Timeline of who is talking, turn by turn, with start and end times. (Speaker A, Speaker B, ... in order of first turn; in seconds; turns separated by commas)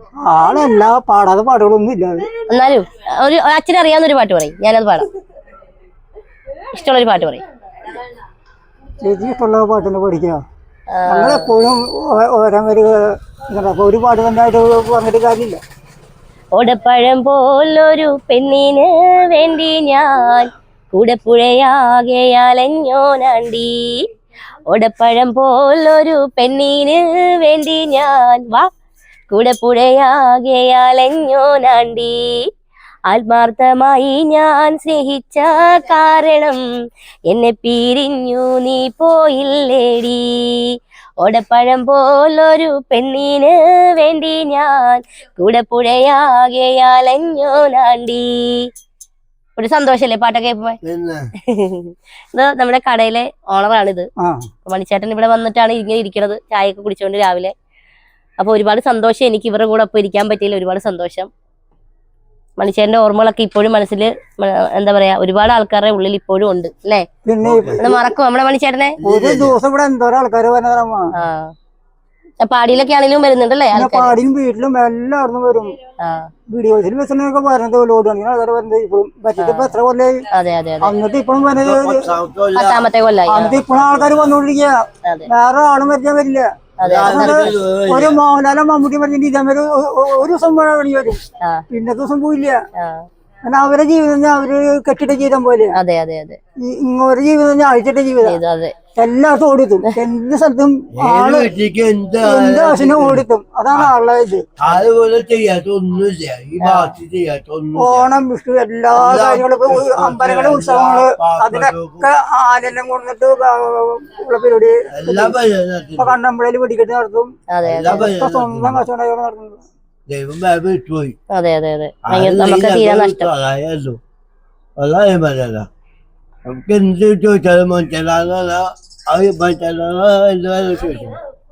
Speaker A: 0.2-2.3, Speaker B: 2.5-5.1, Speaker B: 6.7-7.4, Speaker A: 9.0-10.4, Speaker B: 10.9-11.5, Speaker A: 11.1-12.9, Speaker A: 13.5-15.6, Speaker B: 16.5-24.0, Speaker B: 24.7-28.7, Speaker B: 29.3-32.4, Speaker B: 33.1-36.6, Speaker B: 37.3-48.7, Speaker B: 49.5-50.8, Speaker C: 50.8-51.3, Speaker B: 51.4-54.1, Speaker A: 54.2-54.5, Speaker B: 54.6-57.5, Speaker B: 58.4-61.3, Speaker B: 62.6-67.0, Speaker A: 67.2-68.1, Speaker C: 67.4-67.8, Speaker B: 67.8-69.0, Speaker C: 69.0-69.5, Speaker A: 69.0-71.1, Speaker B: 71.1-71.5, Speaker B: 72.4-74.1, Speaker A: 73.7-75.8, Speaker B: 76.0-76.3, Speaker A: 76.5-80.2, Speaker B: 79.4-79.7, Speaker B: 80.3-80.9, Speaker A: 80.8-82.1, Speaker C: 81.6-82.9, Speaker B: 82.5-83.6, Speaker A: 83.3-86.5, Speaker C: 83.7-84.4, Speaker B: 86.8-87.5, Speaker C: 86.8-88.2, Speaker A: 87.0-91.2, Speaker A: 91.7-92.6, Speaker B: 92.8-93.0, Speaker A: 93.5-95.7, Speaker B: 95.7-96.4, Speaker A: 96.6-98.4, Speaker B: 98.2-98.7, Speaker A: 99.0-101.5, Speaker C: 100.9-103.9, Speaker A: 102.2-104.6, Speaker C: 104.6-108.1, Speaker B: 106.6-107.0, Speaker A: 107.8-115.4, Speaker C: 108.9-112.1, Speaker C: 114.9-116.2, Speaker A: 116.0-117.3, Speaker B: 117.5-118.1, Speaker C: 117.6-118.8, Speaker A: 117.8-119.6, Speaker C: 120.1-121.2, Speaker B: 121.3-123.3, Speaker C: 122.0-124.0, Speaker C: 124.8-125.7, Speaker C: 126.5-131.2